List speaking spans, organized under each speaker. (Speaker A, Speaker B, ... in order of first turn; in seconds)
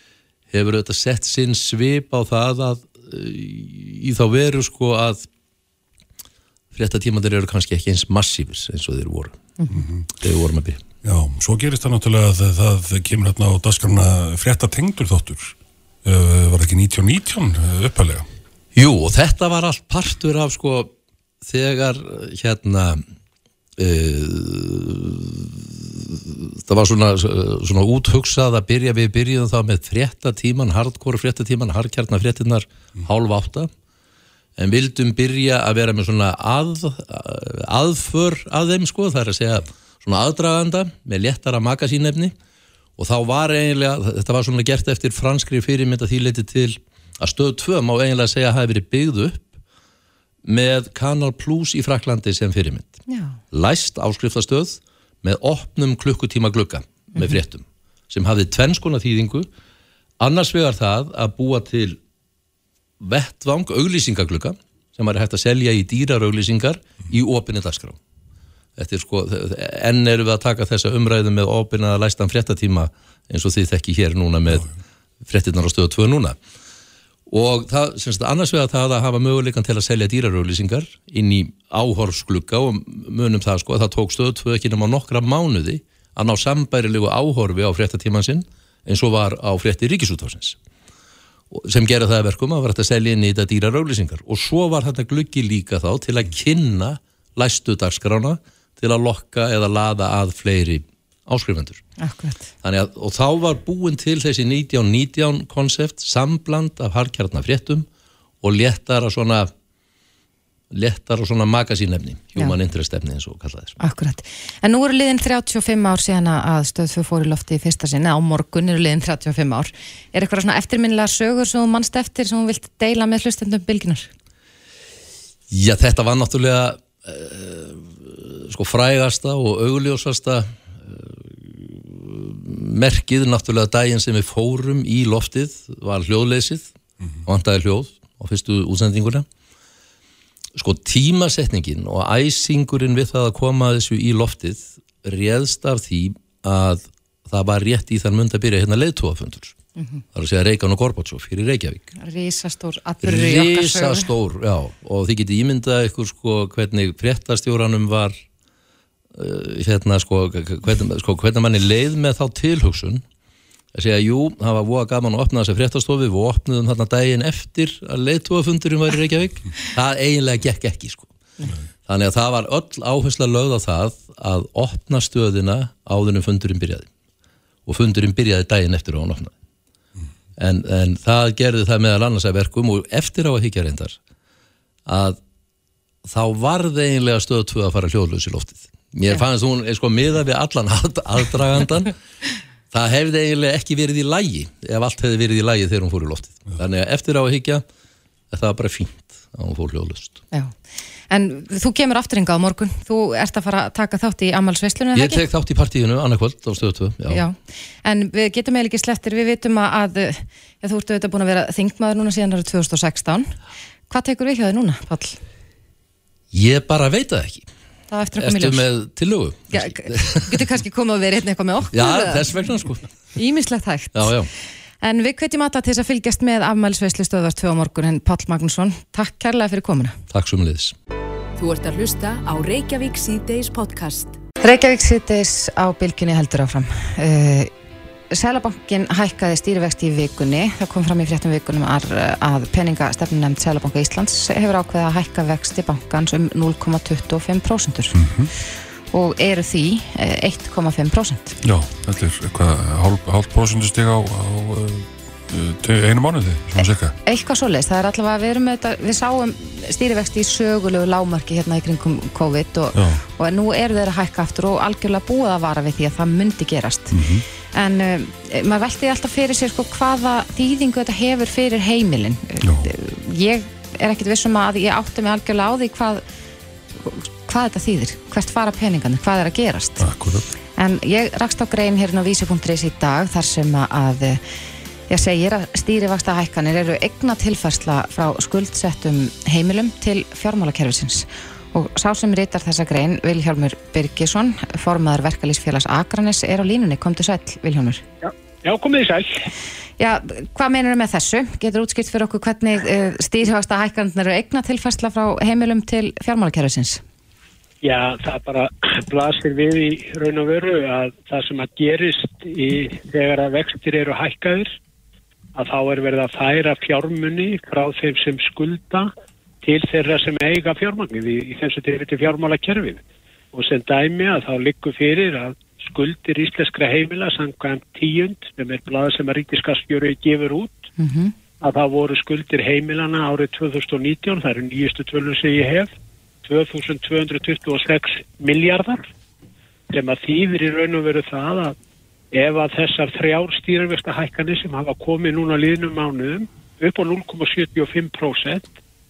Speaker A: 0.5-5.3, 6.7-9.5, 10.1-10.8, 18.8-20.9, 21.4-23.0, 23.8-33.7, 34.6-42.4, 43.0-49.5, 50.5-53.0, 53.5-59.5, 60.2-62.0, 63.0-68.0, 68.8-74.7, 75.2-76.4, 77.3-90.6, 91.5-101.8, 102.6-107.9, 108.4-109.5, 110.7-113.8, 125.5-136.7, 137.3-139.3, 140.6-149.6, 150.1-151.9, 153.0-158.2, 159.2-163.0, 163.7-171.1, 171.9-176.9, 177.7-179.3, 180.4-184.0, 184.9-185.2, 186.1-191.9, 192.7-197.7, 198.3-200.2, 204.9-207.2, 216.3-217.5, 218.2-220.4, 221.7-222.8, 223.9-224.3, 230.1-230.8
Speaker B: 9.7-10.1, 11.0-18.3, 247.9-248.3, 251.4-256.9, 262.7-263.0, 266.9-267.2, 272.4-272.7, 279.8-280.3
Speaker C: 53.1-53.4, 102.0-102.5, 113.8-124.1, 149.8-150.0, 152.0-154.1, 201.1-205.2, 207.1-213.3, 213.9-215.2, 217.9-218.7, 219.5-222.3, 223.2-224.1, 224.8-230.0, 234.4-237.5, 238.1-248.0, 248.9-251.3, 257.1-267.0, 267.5-276.0, 276.8-279.9, 280.6-284.2, 284.9-297.8, 299.8-306.8, 330.8-331.1
Speaker D: 231.4-234.2
Speaker E: 298.0-299.3, 307.6-314.6, 315.4-318.9, 319.4-322.8, 323.3-330.7, 331.4-335.7, 336.2-338.9, 339.7-341.6, 342.1-348.5